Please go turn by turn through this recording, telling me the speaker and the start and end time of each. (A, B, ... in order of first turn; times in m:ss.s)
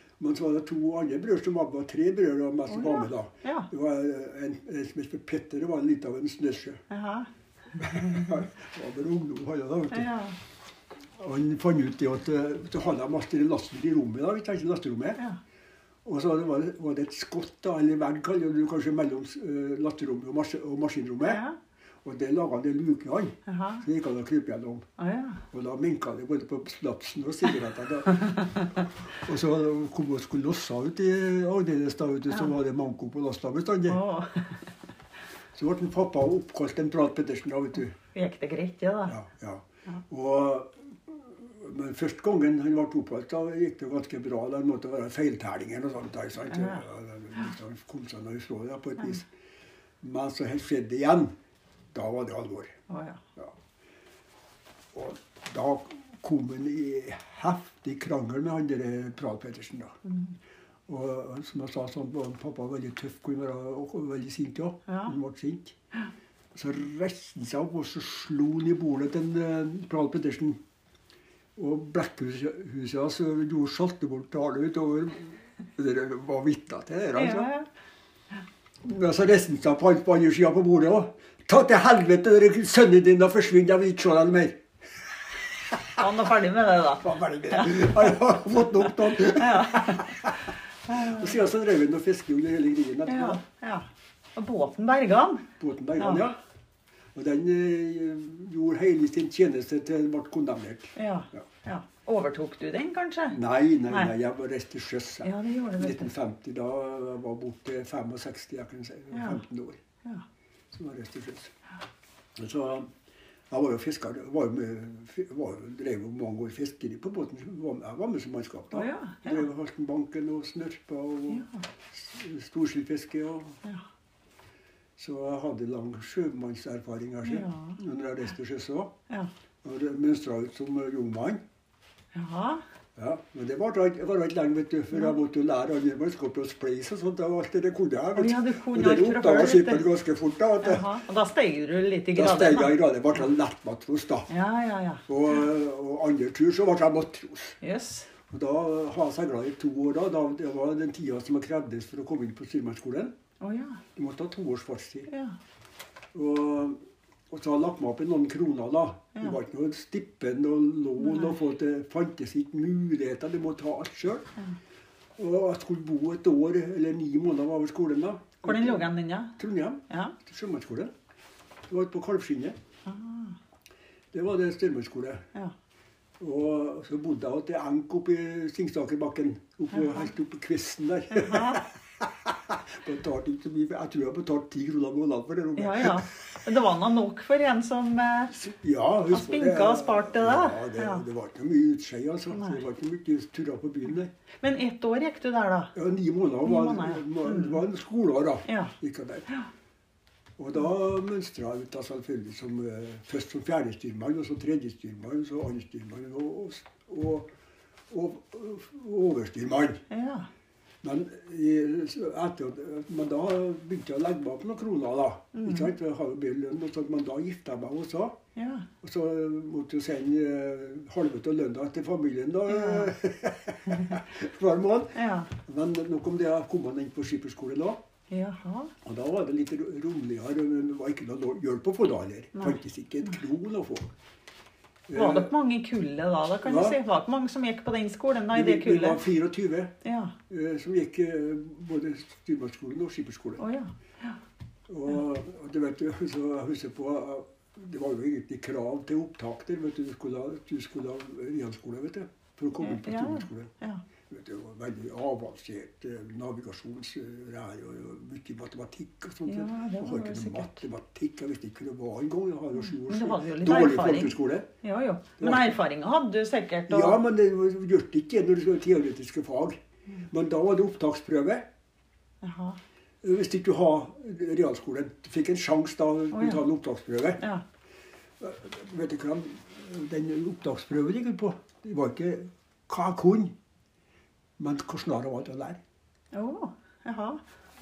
0:00.2-0:06.8 A
0:02.7-0:03.7 B
0:06.9-0:07.3 B
0:07.8-0:10.1 A
0:09.9-0:10.4 B
0:11.2-0:15.2 A
0:16.0-0:21.4 A
0:21.2-0:21.6 B
0:22.0-0:24.9 A
0:23.5-0:23.8 B
0:25.0-0:25.4 B
0:25.5-0:34.0 A
0:33.9-0:34.7 B
0:35.5-0:38.0 A
0:38.1-0:39.2 B
0:39.1-0:49.3 A
0:46.5-0:46.8 B
0:50.0-0:51.3 A
0:51.9-0:52.8 A
0:52.9-0:53.2 B
0:54.9-1:00.0 A
1:00.1-1:00.4 B
1:00.9-1:05.8 A
1:04.9-1:05.1 B
1:06.6-1:10.6 A
1:11.6-1:17.5 A
1:17.1-1:17.7 B
1:18.8-1:24.6 A
1:25.5-1:26.1 A
1:26.0-1:28.2 B
1:27.0-1:33.4 A
1:28.8-1:30.3 B
1:30.9-1:31.4 B
1:33.1-1:36.3 B
1:35.6-1:36.4 A
1:37.2-1:41.5 A
1:41.0-1:43.4 B
1:43.3-1:49.8 A
1:45.2-1:46.1 B
1:49.1-1:49.4 B
1:50.7-1:51.5 A
1:52.4-1:52.9 A
1:53.5-2:03.6 A
1:58.7-1:59.5 B
2:01.3-2:01.6 B
2:05.0-2:09.0 A
2:07.2-2:07.8 B
2:09.6-2:11.4 A
2:12.1-2:12.6 B
2:13.0-2:20.9 A
2:18.2-2:19.9 B
2:20.6-2:22.8 B
2:22.1-2:24.3 A
2:24.3-2:25.0 B
2:25.1-2:27.6 A
2:27.6-2:28.1 B
2:28.3-2:33.1 A
2:33.4-2:33.8 B
2:34.0-2:35.1 A
2:35.1-2:35.4 B
2:36.1-2:36.8 A
2:37.3-2:44.3 A
2:41.0-2:41.4 B
2:45.2-2:48.9 A
2:48.4-2:49.4 B
2:49.4-2:50.9 A
2:49.9-2:50.2 B
2:51.7-2:52.6 A
2:52.8-2:53.4 B
2:54.1-2:55.3 A
2:56.2-3:06.5 A
2:59.8-3:00.1 B
3:01.1-3:01.7 B
3:05.6-3:08.3 B
3:08.3-3:14.1 A
3:09.1-3:11.0 B
3:12.3-3:12.6 B
3:14.4-3:15.7 B
3:15.8-3:19.3 A
3:16.4-3:17.6 B
3:18.5-3:18.8 B
3:20.4-3:27.3 A
3:27.9-3:29.8 A
3:29.9-3:30.3 B
3:30.8-3:38.2 A
3:35.4-3:35.7 B
3:38.4-3:38.7 B
3:38.8-3:47.8 A
3:42.5-3:42.9 B
3:43.7-3:44.0 B
3:45.0-3:45.3 B
3:48.1-3:48.7 B
3:48.8-3:53.9 A
3:52.4-3:52.6 B
3:54.9-3:55.3 A
3:54.9-3:59.0 B
3:56.4-3:56.8 A
3:58.3-3:59.8 A
3:59.8-4:00.2 B
4:00.3-4:03.4 A
4:03.4-4:04.2 B
4:04.7-4:13.5 A
4:12.6-4:13.8 B
4:14.1-4:24.5 A
4:19.3-4:20.6 B
4:22.6-4:27.0 B
4:25.2-4:25.6 A
4:26.7-4:31.5 A
4:32.2-4:32.6 B
4:33.0-4:37.2 A
4:36.1-4:36.4 B
4:38.2-4:43.3 A
4:44.4-4:45.6 A
4:46.1-4:47.2 B